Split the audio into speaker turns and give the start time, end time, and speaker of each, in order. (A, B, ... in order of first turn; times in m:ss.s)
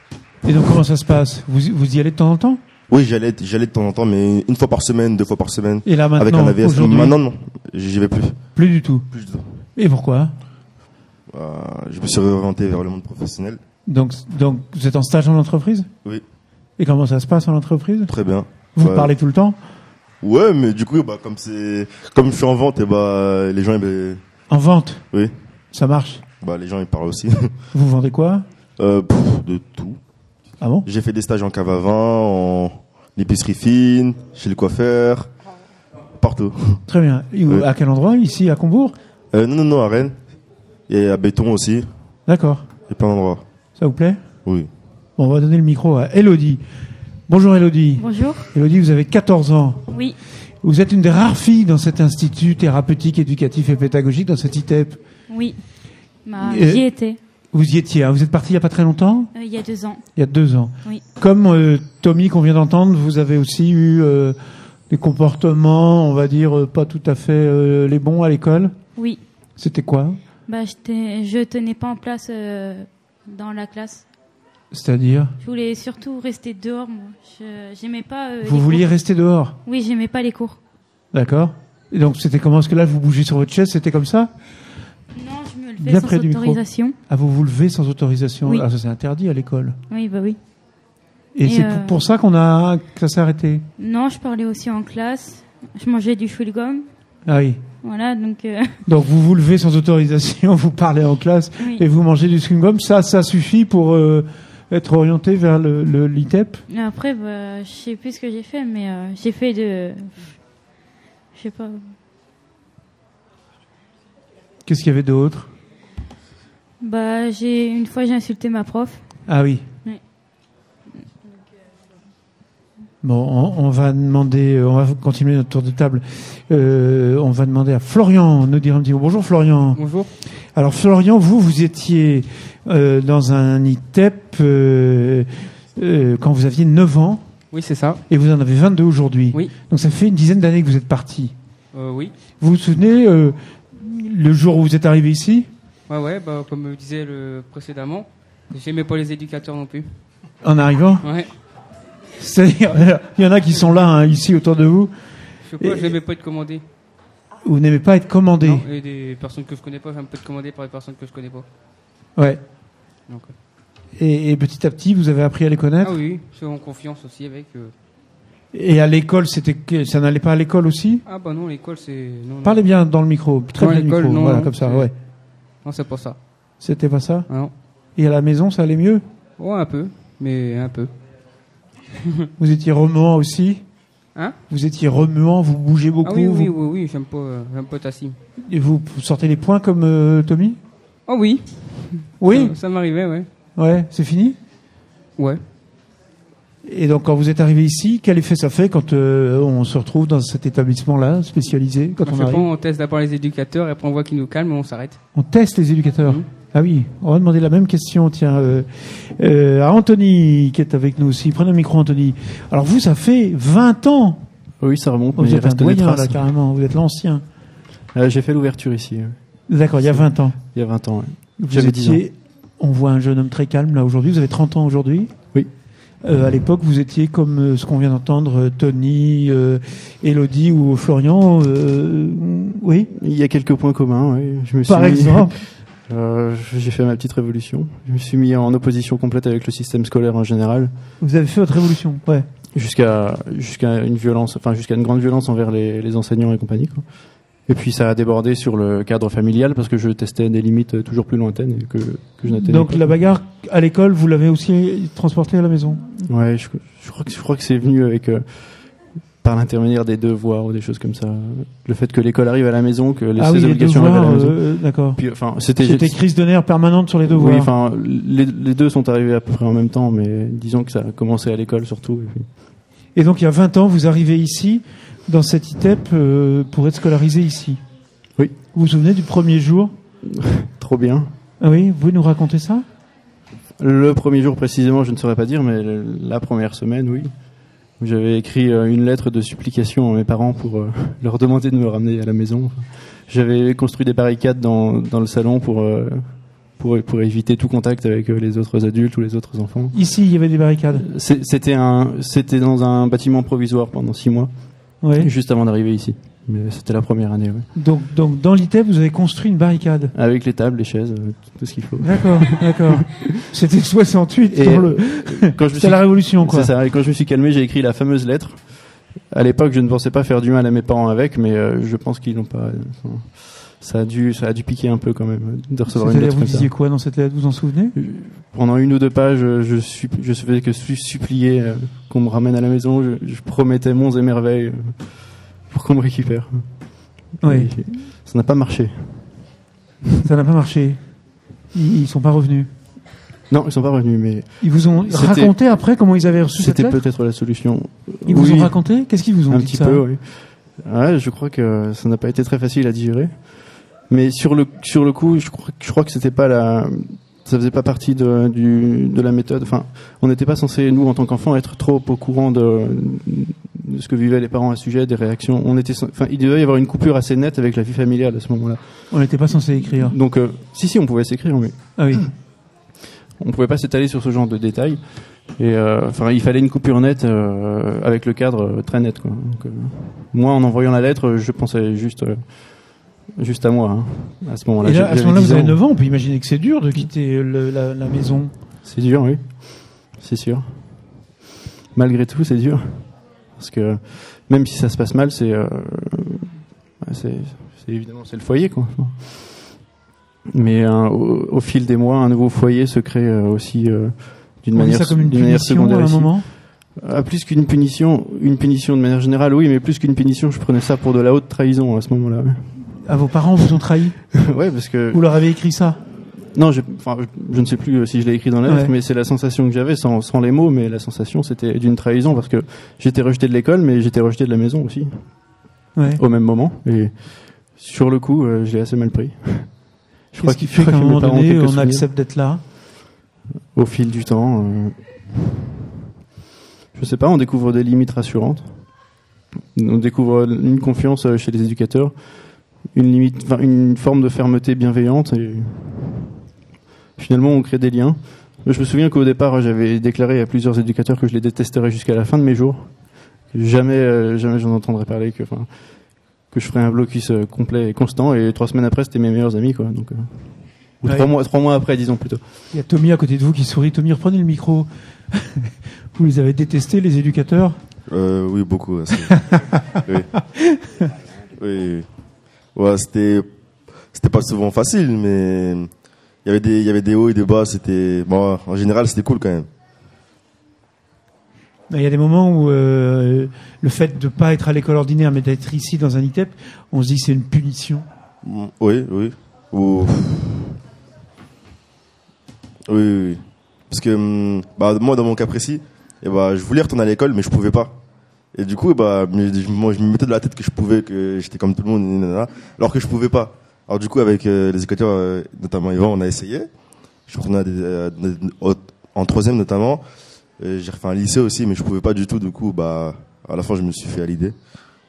0:00.4-0:02.6 A
0:02.9-0:08.4 B
0:05.8-0:07.2 A
0:08.6-0:09.1 A
0:09.1-0:09.4 B
0:09.8-0:10.3 A
0:11.3-0:13.6 B
0:13.9-0:15.9 A
0:16.8-0:18.1 A
0:18.1-0:19.1 B
0:18.7-0:19.6 A
0:20.2-0:24.2 B
0:24.5-0:25.0 A
0:25.7-0:26.2 A
0:26.4-0:27.5 B
0:27.7-0:28.4 A
0:28.8-0:30.0 B
0:30.6-0:30.8 A
0:30.8-0:35.3 B
0:36.1-0:36.8 B
0:36.9-0:39.0 A
0:39.3-0:40.2 B
0:40.9-0:41.9 B
0:42.3-0:42.6 A
0:42.9-0:43.4 B
0:43.8-0:44.2 A
0:45.2-0:46.6 A
0:47.3-0:49.9 A
0:48.0-0:48.5 C
0:49.9-0:50.2 C
0:50.6-0:55.0 A
0:55.3-0:57.2 C
0:56.4-0:59.3 A
0:59.3-1:00.0 C
1:00.1-1:04.4 A
1:04.9-1:08.8 A
1:09.0-1:09.2 C
1:09.6-1:10.2 A
1:10.4-1:14.1 C
1:14.7-1:15.3 A
1:15.4-1:18.9 C
1:18.4-1:19.6 A
1:19.6-1:20.6 C
1:21.1-1:24.3 A
1:25.1-1:27.0 C
1:25.8-1:29.8 A
1:29.9-1:30.4 C
1:31.4-1:33.6 A
1:31.4-1:32.0 C
1:33.8-1:36.8 C
1:37.2-1:37.6 A
1:37.8-1:38.8 C
1:38.8-1:46.6 A
1:46.7-1:50.4 C
1:51.3-1:51.9 C
1:54.6-1:55.5 A
1:56.8-1:59.2 C
1:59.2-1:59.6 A
2:03.0-2:09.8 A
2:09.7-2:10.1 D
2:10.5-2:17.2 A
2:17.5-2:18.0 D
2:18.1-2:21.3 A
2:21.7-2:22.1 D
2:22.4-2:25.5 A
2:25.9-2:30.0 D
2:30.4-2:31.0 A
2:31.0-2:31.3 D
2:32.2-2:34.9 A
2:35.4-2:36.6 D
2:35.6-2:36.0 A
2:37.4-2:38.6 A
2:38.4-2:41.5 D
2:42.2-2:42.4 A
2:43.1-2:43.3 D
2:44.0-2:46.0 A
2:45.8-2:47.7 D
2:48.5-2:51.0 A
2:51.0-2:52.7 D
2:52.4-2:54.9 A
2:53.6-2:55.0 D
2:55.5-2:56.2 D
2:56.6-2:59.0 A
2:57.3-2:57.5 D
2:59.4-3:00.9 D
3:02.4-3:03.7 A
3:04.5-3:06.5 A
3:06.0-3:08.2 D
3:08.4-3:10.6 A
3:11.1-3:13.3 D
3:12.2-3:12.6 A
3:13.6-3:14.4 A
3:15.2-3:15.4 D
3:16.6-3:22.5 A
3:22.0-3:25.0 D
3:25.1-3:34.2 A
3:34.6-3:36.2 E
3:35.2-3:37.2 A
3:37.9-3:42.0 E
3:39.5-3:40.5 A
3:41.4-3:45.2 A
3:46.0-3:52.9 A
3:52.9-4:00.7 E
3:54.6-3:55.4 A
4:01.0-4:02.3 A
4:02.5-4:13.0 E
4:12.3-4:16.0 A
4:16.0-4:26.0 E
4:23.2-4:27.5 A
4:27.0-4:32.4 E
4:32.9-4:37.6 A
4:38.5-4:39.7 A
4:40.0-4:41.1 E
4:41.4-4:42.6 A
4:43.6-4:59.8 E
4:59.7-5:00.8 A
5:00.7-5:07.5 E
5:04.8-5:05.1 A
5:07.5-5:09.9 A
5:09.9-5:13.2 E
5:11.8-5:16.5 A
5:14.3-5:26.5 E
5:25.7-5:27.7 A
5:27.7-5:39.4 E
5:37.2-5:37.5 A
5:40.0-5:42.5 A
5:43.3-5:45.5 E
5:44.4-5:46.8 A
5:46.4-6:12.1 E
5:48.0-5:49.8 A
6:08.9-6:10.0 A
6:11.8-6:12.1 A
6:13.2-6:25.6 E
6:24.6-6:28.3 A
6:28.6-6:31.1 E
6:31.7-6:39.6 E
6:40.3-6:52.8 E
6:44.5-6:46.3 A
6:52.8-6:55.8 A
6:54.1-7:11.9 E
6:58.4-6:58.7 A
7:10.2-7:12.4 A
7:13.5-7:15.4 E
7:16.7-7:18.9 E
7:19.5-7:26.2 E
7:27.0-7:42.3 E
7:42.5-7:47.6 A
7:47.9-7:50.1 B
7:49.1-7:49.8 A
7:50.4-7:50.9 A
7:51.4-7:51.9 B
7:52.5-7:53.3 B
7:53.9-7:55.7 B
7:56.2-7:59.5 B
8:01.7-8:07.8 A
8:08.2-8:10.6 B
8:12.7-8:17.8 B
8:18.3-8:26.5 B
8:27.1-8:29.8 B
8:30.4-8:34.3 B